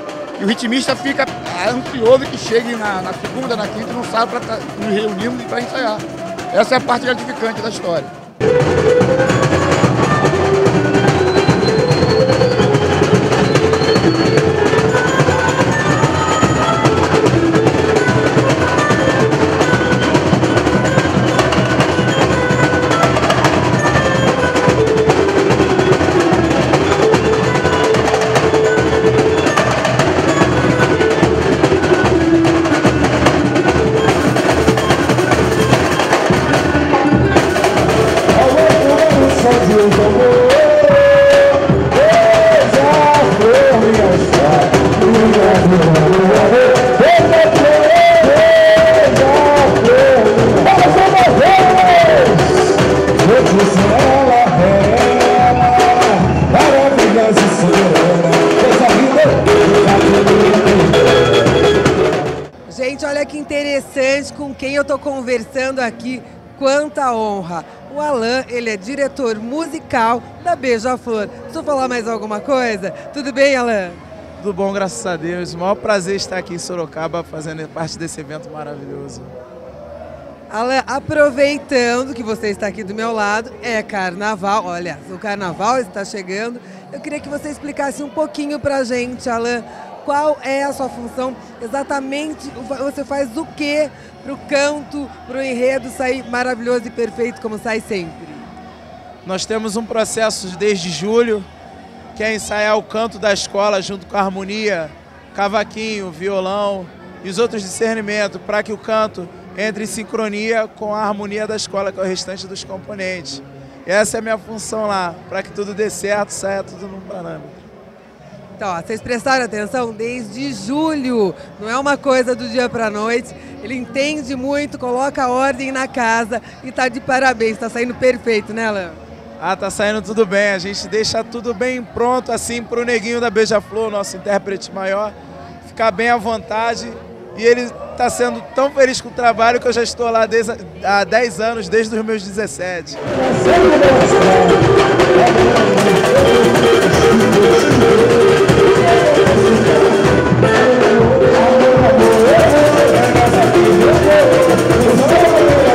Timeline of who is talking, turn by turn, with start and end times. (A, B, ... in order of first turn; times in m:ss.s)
0:00.4-0:08.1 A
1:02.7-1:14.0 B
1:14.4-1:19.3 C
1:20.5-1:38.5 B
1:39.2-1:41.5 C
1:42.2-1:57.6 C
1:58.6-2:09.0 B
2:09.4-2:23.0 C